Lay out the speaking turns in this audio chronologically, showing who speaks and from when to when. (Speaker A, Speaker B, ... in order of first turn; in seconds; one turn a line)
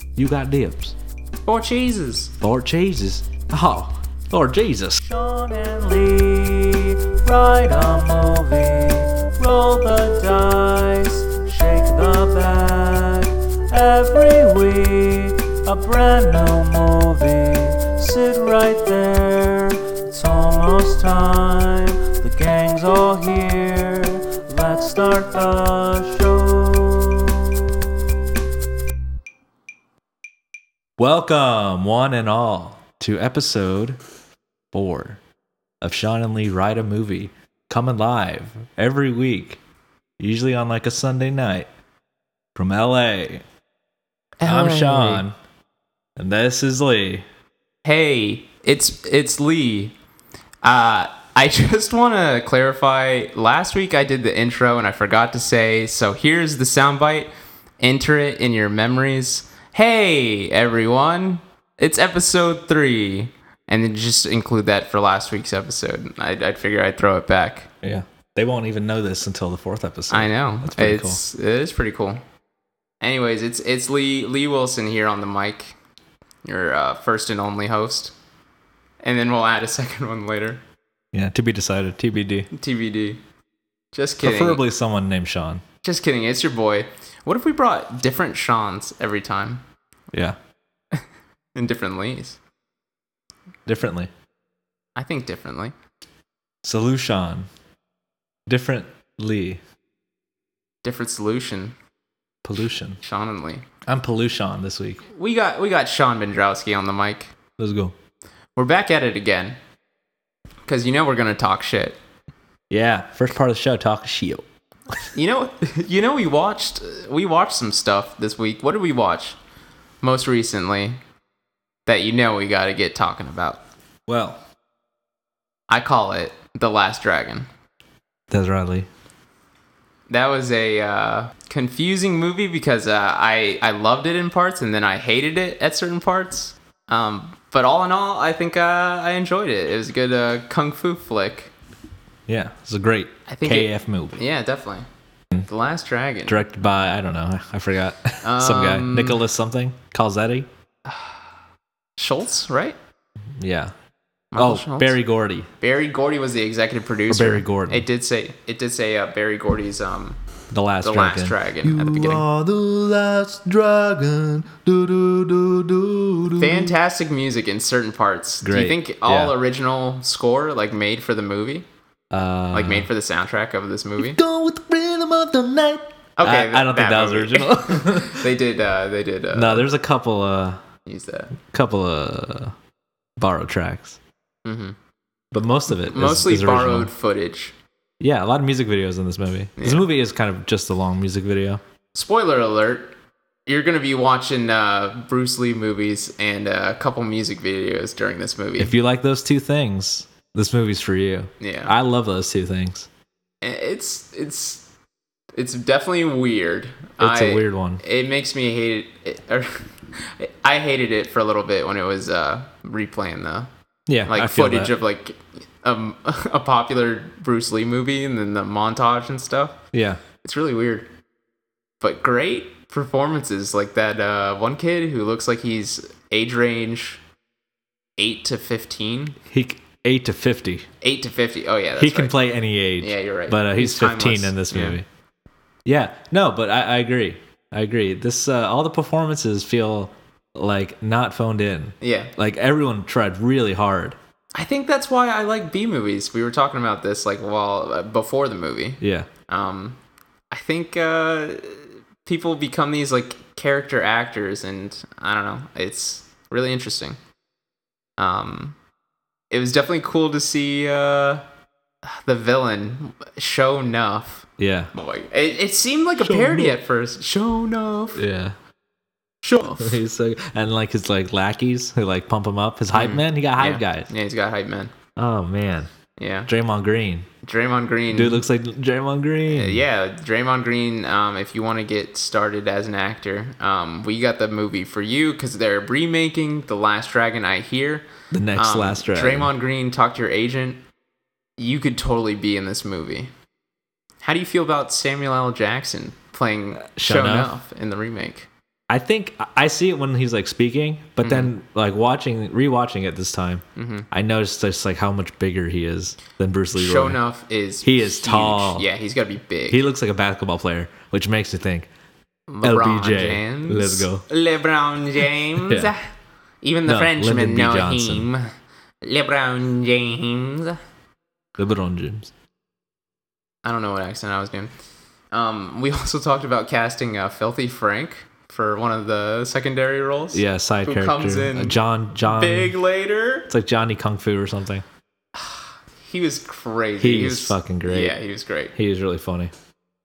Speaker A: 0.1-0.9
Speaker B: 1.4-2.3
Speaker A: 2.4-5.0
Speaker C: 5.0-27.2
Speaker A: 31.0-34.0
Speaker A: 34.7-35.2
Speaker A: 35.8-39.6
Speaker A: 40.2-41.7
Speaker A: 42.5-43.4
Speaker B: 44.4-45.2
Speaker A: 44.4-45.4
Speaker A: 46.1-47.2
Speaker B: 47.8-50.0
Speaker B: 50.6-67.7
Speaker A: 67.8-71.2
Speaker B: 70.1-72.2
Speaker B: 73.0-75.8
Speaker B: 76.4-78.1
Speaker B: 79.0-80.6
Speaker A: 81.1-82.5
Speaker B: 82.5-83.2
Speaker B: 83.9-84.6
Speaker A: 84.2-85.6
Speaker B: 85.8-89.6
Speaker A: 90.1-90.4
Speaker B: 91.5-92.4
Speaker A: 93.7-94.1
Speaker B: 95.0-95.7
Speaker A: 96.6-97.5
Speaker A: 98.5-99.6
Speaker B: 100.8-101.8
Speaker A: 102.4-103.0
Speaker B: 103.0-103.6
Speaker A: 103.8-105.0
Speaker B: 105.1-107.3
Speaker A: 107.6-107.9
Speaker B: 108.5-109.6
Speaker B: 110.7-112.0
Speaker A: 112.7-114.5
Speaker B: 115.1-119.4
Speaker B: 120.0-121.0
Speaker B: 121.8-123.6
Speaker A: 124.1-124.4
Speaker B: 125.7-127.5
Speaker A: 128.3-128.9
Speaker B: 130.1-141.5
Speaker A: 142.3-144.2
Speaker B: 143.3-144.8
Speaker B: 145.4-146.4
Speaker A: 146.3-150.5
Speaker B: 148.2-149.2
Speaker B: 150.9-151.2
Speaker B: 152.0-152.8
Speaker A: 153.4-153.7
Speaker B: 154.3-155.0
Speaker A: 154.3-155.5
Speaker B: 155.6-160.2
Speaker A: 157.1-157.9
Speaker A: 160.5-166.7
Speaker B: 160.8-162.3
Speaker B: 166.3-171.7
Speaker A: 168.4-169.3
Speaker A: 172.1-172.9
Speaker B: 172.5-174.2
Speaker A: 174.0-178.3
Speaker B: 176.2-179.7
Speaker A: 179.3-180.6
Speaker B: 180.8-181.3
Speaker A: 181.4-182.5
Speaker A: 183.2-184.0
Speaker B: 184.4-184.8
Speaker A: 185.3-186.9
Speaker B: 185.7-187.5
Speaker A: 188.0-191.6
Speaker B: 189.6-189.8
Speaker B: 191.9-192.9
Speaker B: 193.5-198.7
Speaker A: 198.6-202.9
Speaker B: 201.4-201.7
Speaker B: 203.4-204.7
Speaker B: 205.3-213.5
Speaker A: 207.0-207.8
Speaker A: 213.9-214.7
Speaker B: 214.1-219.6
Speaker A: 219.7-220.0
Speaker B: 220.2-220.9
Speaker B: 221.8-227.0
Speaker B: 228.0-229.2
Speaker A: 229.3-230.7
Speaker B: 230.8-232.1
Speaker A: 231.8-234.8
Speaker B: 232.8-234.8
Speaker A: 235.6-244.0
Speaker B: 241.8-242.1
Speaker B: 244.3-249.8
Speaker A: 248.8-249.1
Speaker B: 250.3-257.0
Speaker B: 258.0-258.6
Speaker B: 259.3-261.2
Speaker B: 261.8-268.0
Speaker A: 264.4-264.7
Speaker A: 266.0-266.6
Speaker A: 267.9-268.3
Speaker B: 269.2-269.8
Speaker A: 269.6-273.9
Speaker B: 272.7-274.7
Speaker A: 274.9-275.7
Speaker B: 276.0-276.3
Speaker A: 276.3-277.1
Speaker B: 277.2-278.2
Speaker A: 277.9-279.6
Speaker B: 279.3-290.6
Speaker A: 288.1-289.3
Speaker B: 291.4-293.1
Speaker B: 294.0-298.3
Speaker A: 296.6-297.3
Speaker A: 298.7-307.0
Speaker B: 301.0-301.3
Speaker B: 303.6-303.9
Speaker B: 306.5-309.6
Speaker A: 307.6-308.7
Speaker A: 309.5-311.7
Speaker B: 312.3-318.3
Speaker A: 312.4-314.0
Speaker A: 315.4-315.7
Speaker A: 316.6-318.1
Speaker B: 318.8-320.6
Speaker A: 321.4-322.1
Speaker B: 323.4-324.5
Speaker B: 325.1-333.3
Speaker A: 330.1-332.6
Speaker A: 333.3-334.6
Speaker B: 335.1-338.5
Speaker A: 336.8-338.0
Speaker A: 338.5-339.3